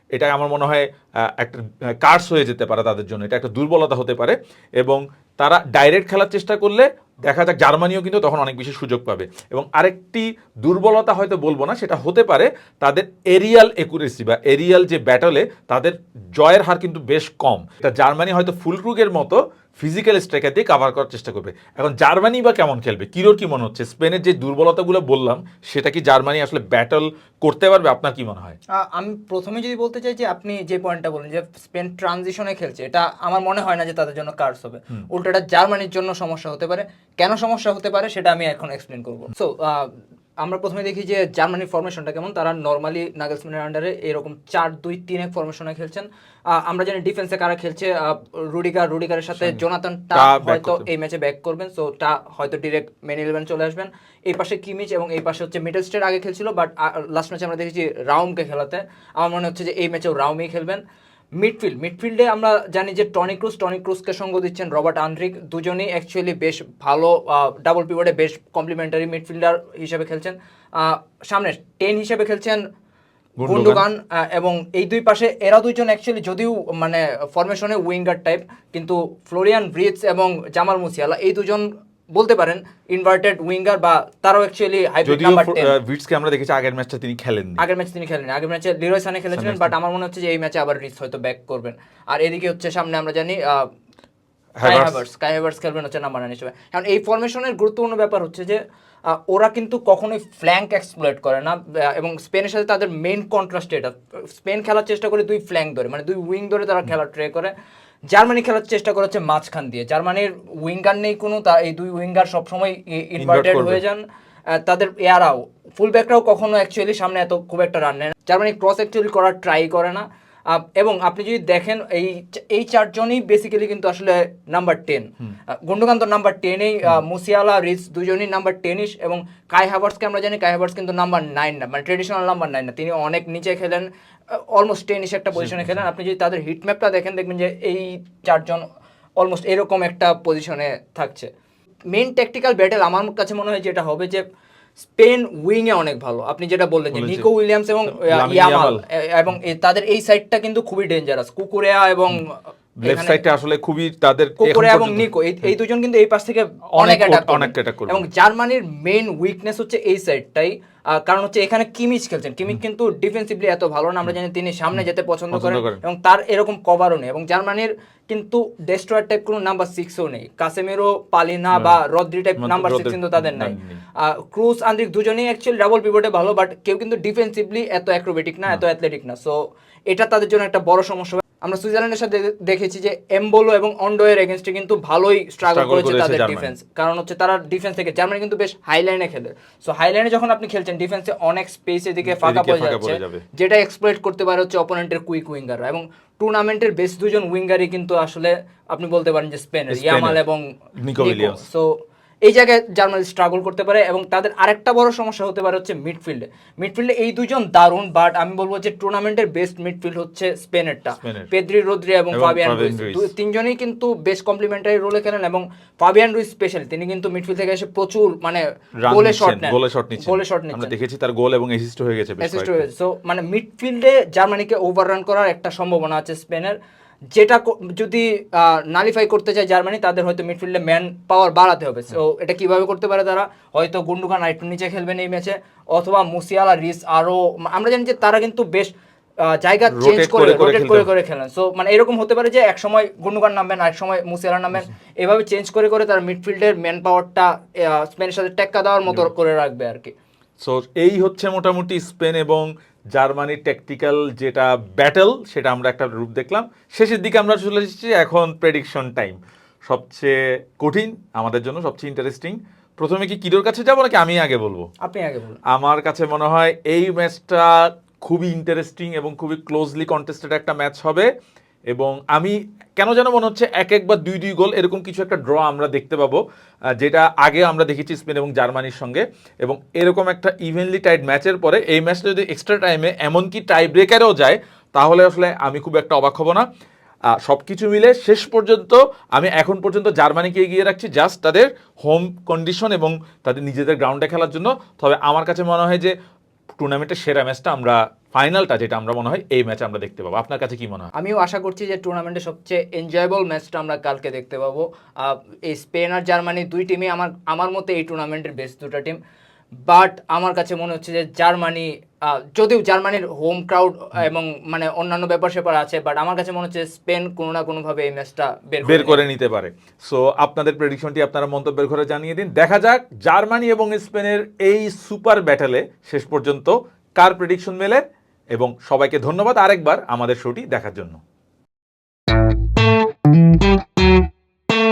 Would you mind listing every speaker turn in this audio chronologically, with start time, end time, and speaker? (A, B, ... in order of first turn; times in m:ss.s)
0:00.1-0:28.6 A
0:28.7-1:00.8 B
0:50.1-0:50.9 A
1:01.4-1:12.6 B
1:13.4-1:13.8 A
1:13.4-1:25.8 B
1:25.0-1:27.6 A
1:27.6-1:33.6 B
1:29.3-1:29.7 A
1:34.6-1:35.0 A
1:34.6-1:47.5 B
1:48.1-2:18.6 B
1:53.2-1:53.8 A
2:15.4-2:15.8 A
2:19.2-2:21.3 B
2:21.9-2:24.2 B
2:24.8-2:33.2 B
2:26.9-2:27.3 A
2:27.9-2:28.8 A
2:32.8-2:35.1 A
2:34.4-2:59.4 B
2:36.7-2:38.0 A
2:45.3-2:45.8 A
2:51.5-2:51.8 A
2:52.4-2:53.8 A
2:59.9-3:21.7 B
3:05.4-3:06.5 A
3:12.0-3:13.2 A
3:19.7-3:20.2 A
3:20.8-3:21.4 A
3:22.2-3:40.8 B
3:31.0-3:31.3 A
3:32.1-3:33.1 A
3:38.8-3:42.6 A
3:42.2-3:46.6 B
3:47.1-4:09.9 B
3:59.7-4:00.9 A
4:10.4-4:24.7 A
4:24.8-4:25.4 B
4:25.5-4:31.1 A
4:31.7-4:36.2 A
4:36.8-4:46.4 A
4:47.1-4:55.9 A
4:56.6-5:00.9 A
5:00.9-5:09.0 B
5:09.6-5:19.0 B
5:18.6-5:27.8 A
5:28.3-5:31.0 A